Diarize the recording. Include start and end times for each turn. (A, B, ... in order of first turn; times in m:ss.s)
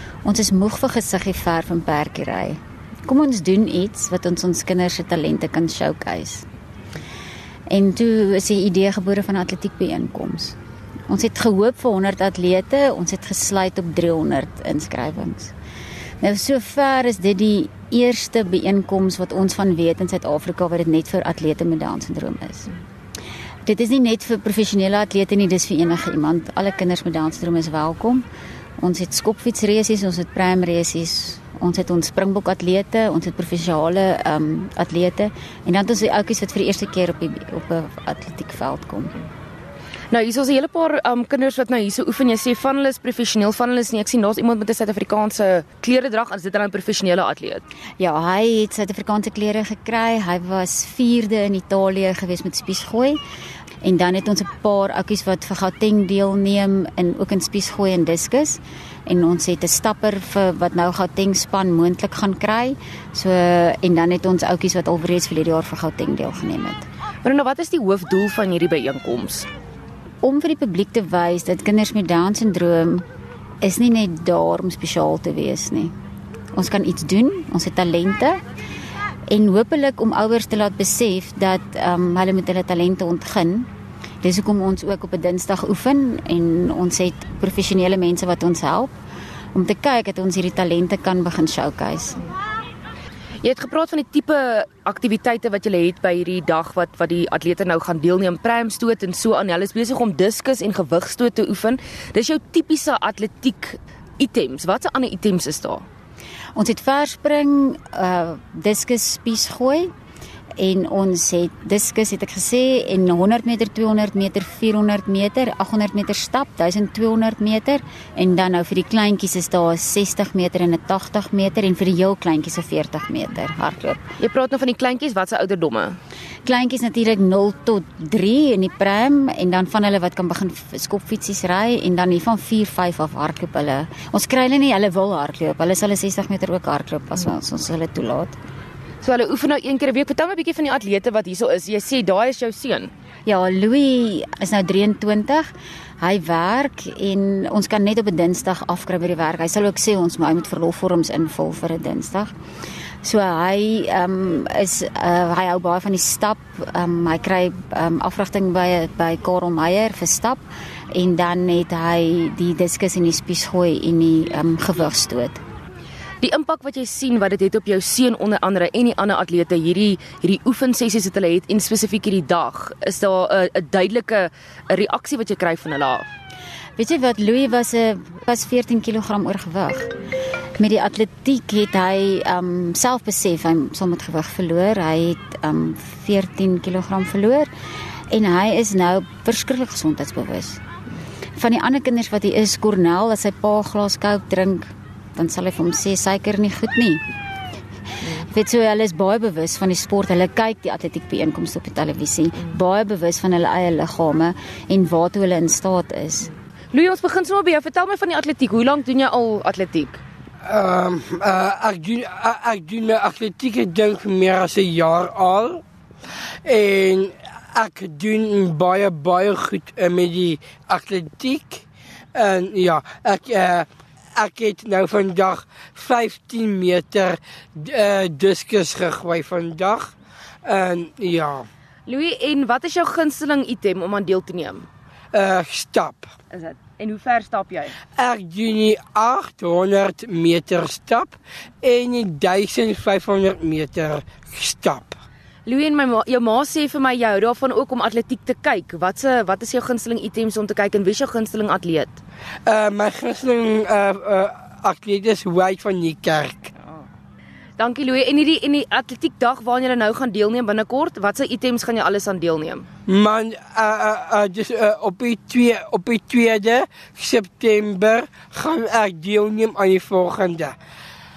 0:00.2-0:06.4 A
0:07.7-0:10.6 A
0:11.1-0:15.5 A
0:16.2-0:22.7 A
0:23.6-0:28.2 A
0:28.8-0:39.2 A
0:40.1-0:47.6 B
0:48.0-0:53.2 A
0:53.8-1:06.8 A
1:07.2-1:09.5 B
1:10.2-1:13.0 A
1:13.6-1:15.9 A
1:16.5-1:18.4 A
1:19.3-1:23.7 A
1:24.2-1:28.9 A
1:29.5-1:32.2 A
1:33.4-1:45.8 B
1:46.5-1:49.9 A
1:50.6-2:04.0 A
2:04.2-2:06.0 B
2:06.4-2:18.3 A
2:19.0-2:22.9 B
2:23.2-2:25.5 A
2:26.0-2:32.3 A
2:33.0-2:40.4 A
2:40.9-2:45.4 A
2:46.2-2:56.1 B
2:56.8-2:59.9 A
3:00.6-3:07.5 A
3:08.1-3:10.6 A
3:11.4-3:17.0 A
3:18.0-3:26.3 A
3:26.7-3:30.0 B
3:30.4-3:35.6 C
3:36.4-3:49.9 C
3:50.4-3:51.5 C
3:51.8-3:54.7 B
3:55.1-3:56.1 C
3:56.3-3:57.7 B
3:58.0-4:04.9 C
4:05.4-4:12.0 B
4:12.4-4:16.5 C
4:17.6-4:22.7 B
4:22.9-4:30.6 C